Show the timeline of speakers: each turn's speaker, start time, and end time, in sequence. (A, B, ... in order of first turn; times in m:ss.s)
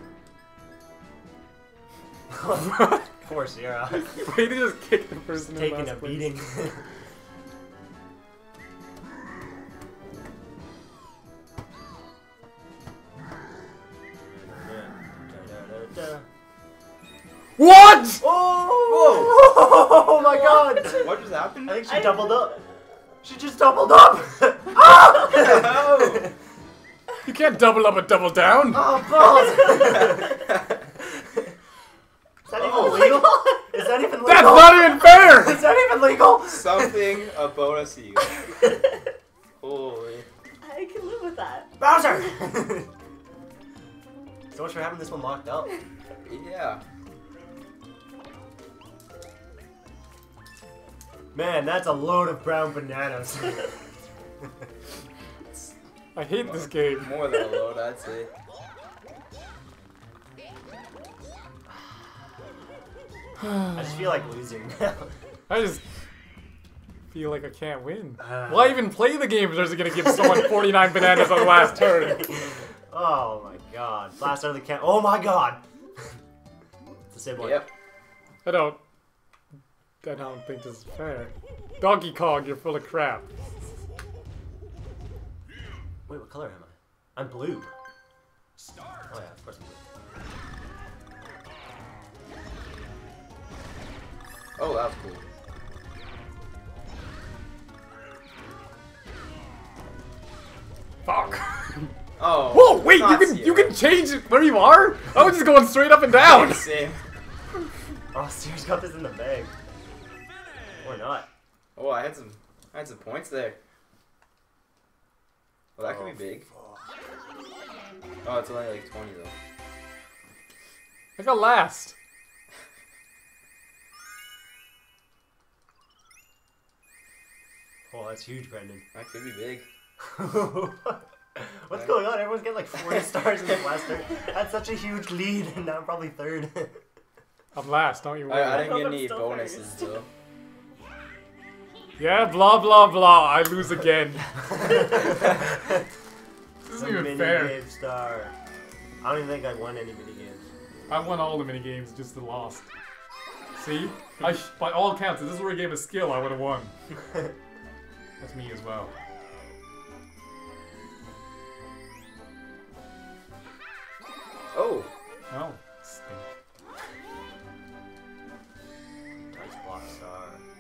0:02.3-0:04.3 A
0:02.8-0:03.0 B
0:04.0-0:06.4 B
0:05.5-0:06.8 A
0:14.2-0:16.2 A
0:17.6-0:18.3 B
0:18.2-0:22.6 A
0:18.8-0:19.4 C
0:20.2-0:21.1 D
0:20.8-0:21.9 C
0:21.9-0:22.6 D
0:23.2-0:26.3 A
0:25.3-0:26.3 C
0:27.2-0:29.0 B
0:28.7-0:30.4 A
0:32.5-0:37.0 A
0:32.6-0:33.3 C
0:32.8-0:33.3 D
0:34.2-0:35.7 B
0:36.5-0:38.5 C
0:39.6-0:40.3 C
0:40.6-0:42.0 D
0:41.8-0:42.9 A
0:44.5-0:45.7 A
0:46.3-0:46.8 C
0:51.3-0:53.8 A
0:56.2-0:57.2 B
0:56.4-0:58.3 C
1:03.7-1:05.1 A
1:05.5-1:05.8 B
1:07.1-1:12.3 B
1:08.2-1:08.9 A
1:11.7-1:15.6 A
1:17.1-1:17.7 A
1:17.4-1:17.7 C
1:18.4-1:18.8 B
1:20.0-1:23.3 B
1:26.1-1:27.7 A
1:29.1-1:29.8 A
1:34.6-1:35.2 C
1:41.1-1:41.9 B
1:42.2-1:43.8 C
1:42.5-1:46.7 B
1:46.2-1:47.0 C
1:48.1-1:49.5 A
1:50.8-1:51.3 A
1:51.8-1:53.6 C
1:55.8-1:56.5 C
1:55.8-1:56.8 A
1:58.2-1:59.3 C
2:01.2-2:01.9 B
2:07.9-2:08.8 A
2:09.0-2:09.7 C
2:10.0-2:16.8 A
2:17.5-2:18.8 B
2:18.3-2:20.1 C
2:18.5-2:20.0 D
2:22.0-2:24.3 B
2:24.5-2:25.8 A
2:26.6-2:27.6 B
2:26.7-2:28.3 A
2:29.0-2:30.4 A
2:30.9-2:32.7 B
2:33.6-2:36.7 B
2:38.2-2:38.9 B
2:44.5-2:44.9 C
2:45.3-2:46.3 B
2:49.2-2:50.4 A